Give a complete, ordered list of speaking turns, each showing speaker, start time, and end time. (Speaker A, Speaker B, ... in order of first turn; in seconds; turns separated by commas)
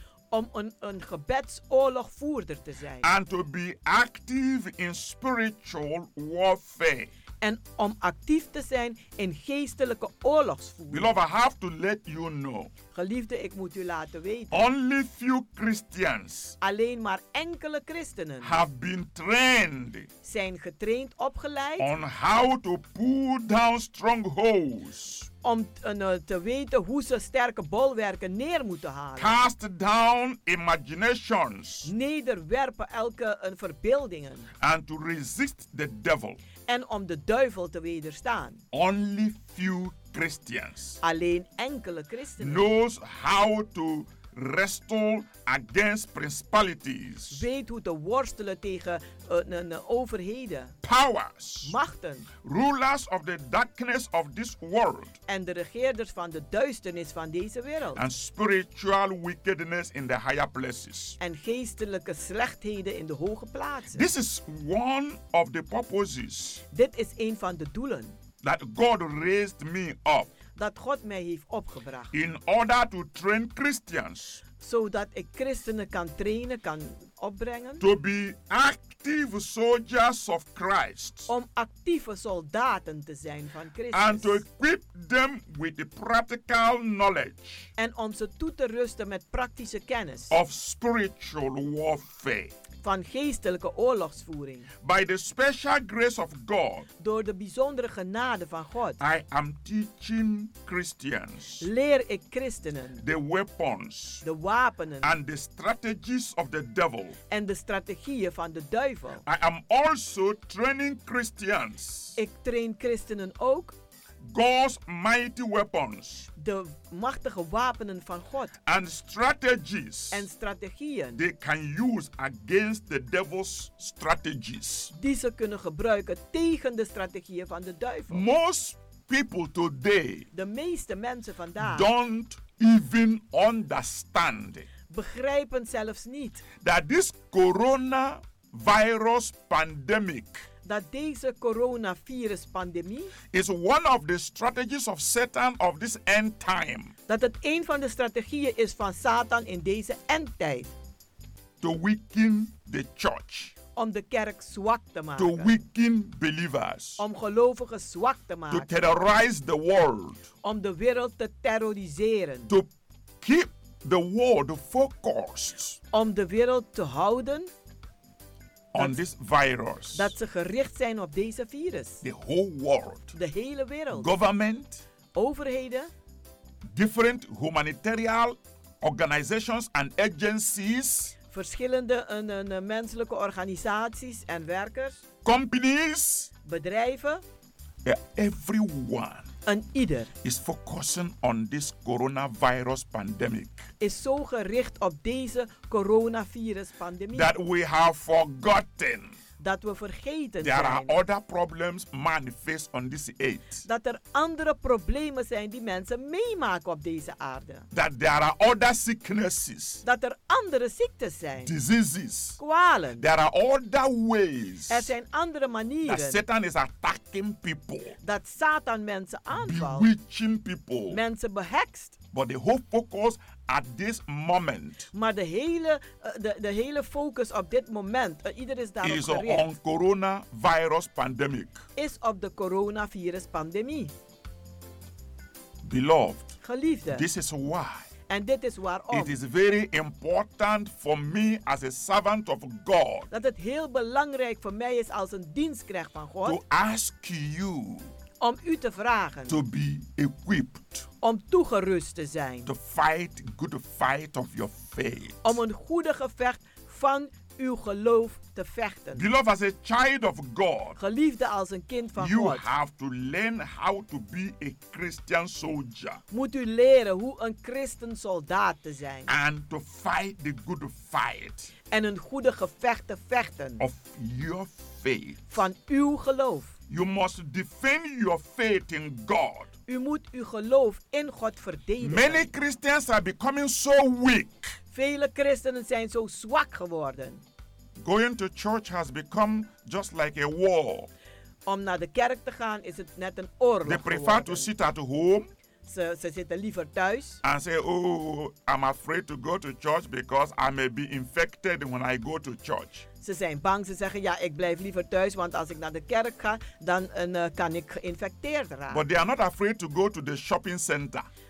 Speaker A: 0.3-3.1, Speaker B: 3.0-7.1, Speaker A: 7.4-11.1, Speaker B: 10.9-12.7, Speaker A: 12.9-14.7, Speaker B: 14.5-16.6, Speaker A: 16.6-18.6, Speaker B: 18.4-20.1, Speaker A: 20.2-21.9, Speaker B: 21.8-25.3, Speaker A: 25.4-29.4, Speaker B: 29.2-31.9, Speaker A: 31.9-34.5, Speaker B: 34.6-36.4, Speaker A: 36.7-38.6, Speaker B: 38.7-41.0, Speaker A: 41.0-42.7, Speaker B: 42.4-47.4, Speaker A: 47.3-50.7, Speaker B: 50.8-51.8, Speaker A: 51.6-52.3, Speaker B: 52.4-55.2, Speaker A: 55.3-58.0, Speaker B: 58.0-61.2, Speaker A: 61.2-64.0, Speaker B: 63.9-66.6, Speaker A: 66.7-68.2, Speaker B: 68.4-70.3, Speaker A: 70.5-72.1, Speaker B: 72.1-74.4, Speaker A: 74.6-77.8, Speaker B: 77.8-81.3, Speaker A: 81.3-84.4, Speaker B: 83.9-87.7, Speaker A: 87.8-90.3, Speaker B: 90.3-92.5, Speaker A: 92.8-94.7, Speaker B: 94.8-96.9, Speaker A: 97.0-99.0, Speaker B: 99.0-101.7, Speaker A: 101.6-103.0, Speaker B: 103.0-104.2, Speaker A: 104.2-105.2, Speaker B: 105.0-107.2, Speaker A: 107.3-109.2, Speaker B: 109.3-112.2, Speaker A: 112.2-113.8, Speaker B: 114.2-116.3, Speaker A: 116.4-118.6, Speaker B: 118.7-120.3, Speaker A: 120.1-121.2, Speaker B: 121.2-124.9, Speaker A: 124.9-128.2, Speaker B: 128.1-130.3, Speaker A: 130.3-131.9, Speaker B: 131.6-134.7, Speaker A: 134.9-136.4, Speaker B: 136.6-140.5, Speaker A: 140.7-143.1, Speaker B: 143.3-146.9, Speaker A: 147.1-150.7, Speaker B: 151.6-153.5, Speaker A: 153.8-155.6, Speaker B: 155.2-157.0, Speaker A: 157.0-158.7, Speaker B: 158.5-160.2, Speaker A: 160.4-162.5, Speaker B: 163.2-165.8, Speaker A: 165.9-167.5, Speaker B: 168.7-170.1, Speaker A: 169.9-172.0, Speaker B: 172.0-173.2, Speaker A: 173.1-174.1, Speaker B: 173.9-174.8, Speaker A: 175.2-175.9, Speaker B: 176.7-181.2, Speaker A: 181.3-185.0, Speaker B: 185.2-186.3, Speaker A: 186.4-187.2, Speaker B: 187.8-189.3, Speaker A: 189.5-190.1, Speaker B: 190.2-193.7, Speaker A: 193.8-197.3, Speaker B: 197.1-199.2, Speaker A: 199.4-201.0, Speaker B: 200.4-203.7, Speaker A: 203.7-207.7, Speaker B: 207.7-209.8, Speaker A: 209.8-211.5, Speaker B: 211.4-212.4, Speaker A: 212.4-213.1, Speaker B: 213.0-214.9, Speaker A: 214.7-216.2, Speaker B: 215.8-218.0, Speaker A: 218.0-219.9, Speaker B: 219.3-221.0, Speaker A: 220.9-222.0, Speaker B: 222.1-224.9, Speaker A: 224.9-229.5, Speaker B: 228.8-231.6, Speaker A: 231.8-233.9, Speaker B: 235.6-236.4, Speaker A: 236.4-237.1, Speaker B: 236.9-237.9, Speaker A: 238.1-239.2, Speaker B: 238.9-243.1, Speaker A: 243.1-246.4, Speaker B: 246.2-247.9, Speaker A: 248.2-249.4, Speaker B: 249.3-250.9, Speaker A: 251.0-252.5, Speaker B: 252.5-255.4, Speaker A: 255.2-259.1, Speaker B: 258.9-260.8, Speaker A: 260.8-262.5, Speaker B: 262.0-266.0, Speaker A: 266.1-269.1, Speaker B: 269.1-271.5, Speaker A: 271.7-273.6, Speaker B: 273.6-275.3, Speaker A: 275.3-276.5, Speaker B: 276.7-279.5, Speaker A: 279.7-282.3, Speaker B: 281.8-284.6, Speaker A: 284.7-287.2, Speaker B: 287.8-290.9, Speaker A: 291.5-294.5, Speaker B: 293.7-295.3, Speaker A: 295.7-297.2, Speaker B: 297.2-302.9, Speaker A: 303.0-308.8, Speaker B: 308.7-311.1